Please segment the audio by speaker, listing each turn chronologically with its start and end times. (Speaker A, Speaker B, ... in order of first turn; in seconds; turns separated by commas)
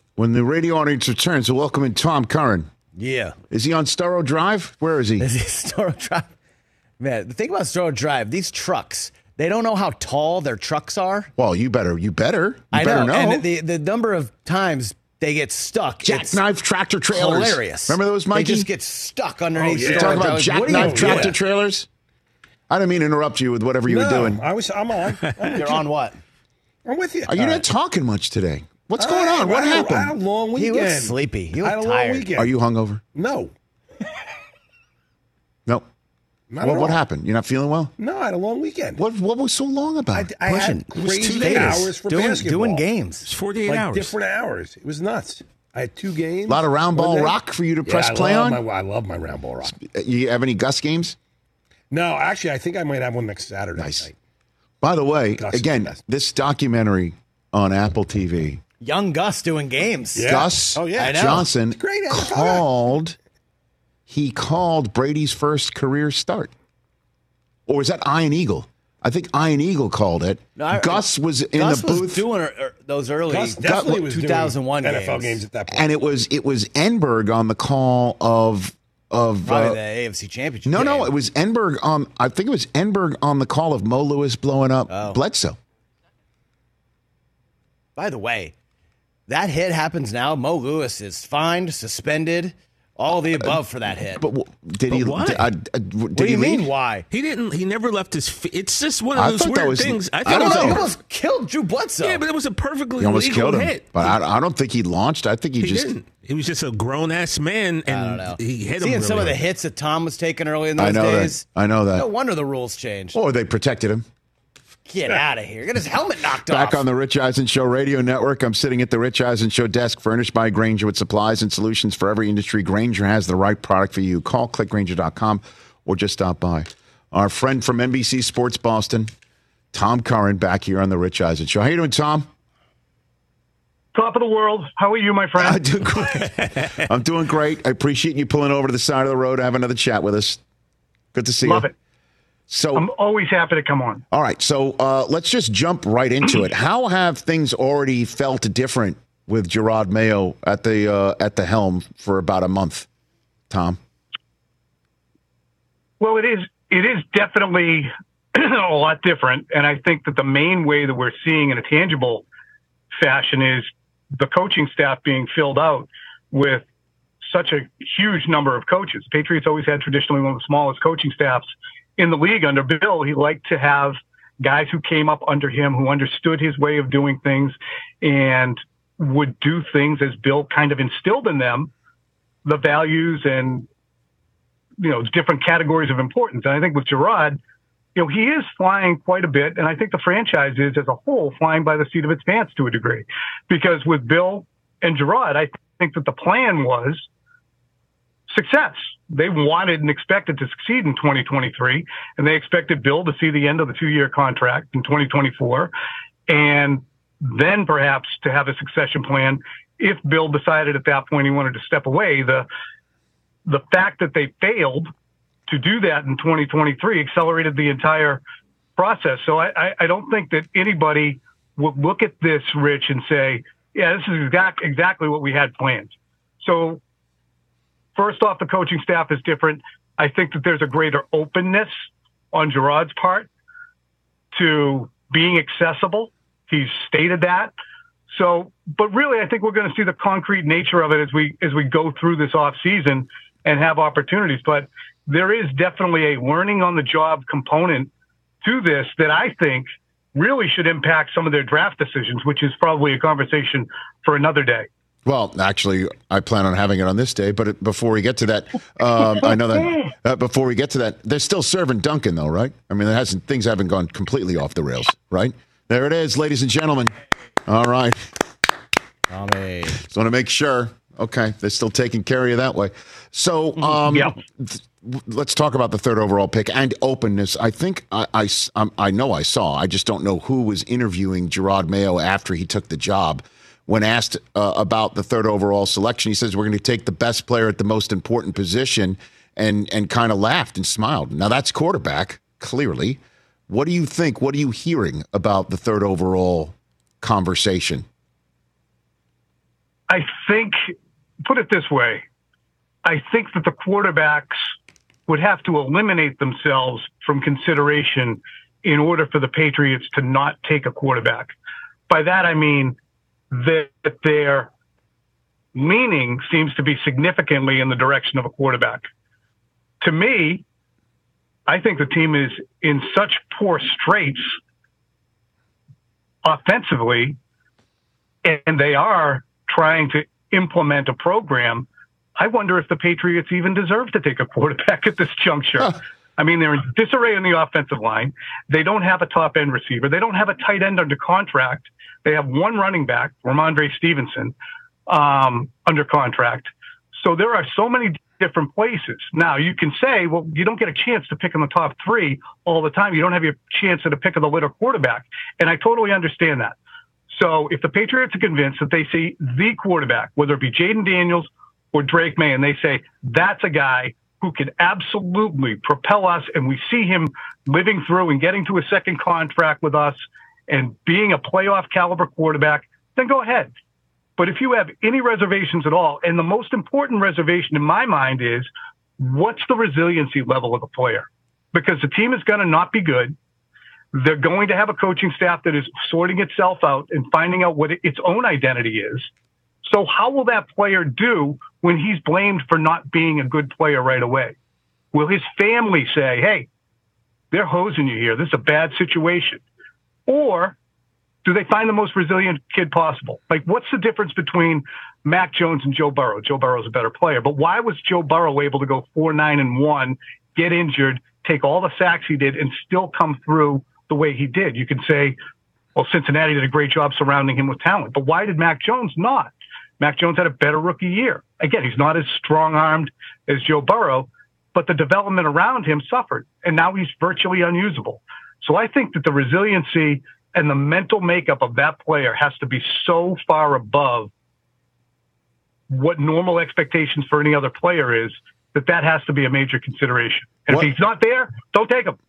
Speaker A: 0.2-2.7, Speaker B: 3.0-3.4, Speaker A: 3.5-5.3, Speaker B: 5.2-6.3, Speaker B: 7.0-11.3, Speaker A: 11.4-13.5, Speaker B: 12.7-16.4, Speaker A: 16.0-18.7, Speaker B: 17.1-21.4, Speaker C: 19.6-21.4, Speaker A: 19.8-21.9, Speaker A: 22.7-24.4, Speaker C: 23.9-25.9, Speaker B: 25.5-26.2, Speaker C: 26.9-27.6, Speaker A: 27.3-30.2, Speaker C: 29.0-32.5, Speaker B: 30.6-32.2, Speaker A: 32.4-33.0, Speaker C: 33.1-33.5, Speaker C: 36.5-37.0, Speaker A: 36.6-37.9, Speaker C: 38.0-39.0, Speaker A: 39.0-40.3, Speaker C: 40.1-42.9, Speaker B: 40.5-43.3, Speaker D: 41.0-41.9, Speaker D: 43.2-44.1, Speaker C: 43.6-49.8, Speaker A: 46.5-48.6, Speaker A: 49.6-51.2, Speaker C: 51.9-54.1, Speaker A: 53.8-54.1, Speaker A: 54.8-58.6, Speaker C: 55.4-56.0, Speaker B: 58.8-60.4, Speaker C: 60.2-62.7, Speaker A: 60.2-63.2, Speaker B: 60.9-61.5, Speaker A: 64.1-66.5, Speaker A: 67.7-72.3, Speaker B: 70.6-75.4, Speaker C: 73.3-75.9, Speaker A: 73.7-74.0, Speaker A: 75.7-79.8, Speaker B: 79.4-81.1, Speaker A: 80.7-85.6, Speaker B: 84.9-85.2, Speaker B: 88.0-88.5, Speaker B: 89.3-94.2, Speaker A: 93.3-96.7, Speaker D: 94.9-95.5, Speaker B: 96.2-97.0, Speaker D: 97.1-100.9, Speaker A: 99.2-100.9, Speaker B: 100.2-102.2, Speaker D: 102.0-104.1, Speaker A: 103.0-105.9, Speaker D: 105.6-109.5, Speaker B: 107.9-113.2, Speaker A: 110.8-112.1, Speaker A: 113.1-114.1, Speaker B: 114.9-116.8, Speaker A: 116.5-129.1, Speaker A: 129.7-132.3, Speaker E: 133.9-135.6, Speaker A: 135.4-140.4, Speaker A: 141.1-141.7, Speaker E: 141.4-141.7, Speaker A: 142.5-142.9, Speaker E: 142.7-144.1, Speaker A: 144.1-152.9, Speaker A: 153.5-153.8, Speaker E: 156.0-162.2, Speaker E: 163.0-166.7, Speaker E: 167.2-171.5, Speaker E: 172.0-181.7, Speaker E: 182.4-183.7, Speaker E: 184.8-187.4, Speaker E: 188.0-197.1, Speaker E: 198.3-205.7, Speaker E: 206.3-212.5, Speaker E: 213.5-214.9, Speaker E: 215.5-218.2, Speaker E: 218.8-226.8, Speaker E: 228.0-231.7, Speaker E: 232.3-233.3, Speaker E: 234.3-237.5, Speaker E: 238.1-247.9, Speaker E: 248.4-254.7, Speaker A: 255.1-266.9, Speaker A: 267.4-268.2, Speaker B: 269.1-269.8, Speaker A: 269.8-297.9, Speaker E: 273.8-274.1, Speaker E: 299.9-300.6, Speaker E: 301.2-302.0, Speaker E: 302.9-304.4, Speaker E: 305.1-311.3, Speaker E: 311.9-312.8, Speaker E: 313.3-314.5, Speaker E: 315.6-318.9, Speaker E: 319.8-320.4, Speaker E: 321.5-324.3, Speaker E: 326.2-327.2, Speaker E: 328.2-344.4, Speaker E: 344.9-356.6, Speaker E: 357.1-373.5, Speaker E: 374.2-383.1, Speaker E: 383.9-389.1, Speaker E: 389.6-394.4, Speaker E: 394.9-396.5, Speaker E: 397.3-399.4, Speaker E: 400.1-400.6, Speaker E: 401.2-415.2, Speaker E: 415.8-434.1, Speaker E: 435.7-442.0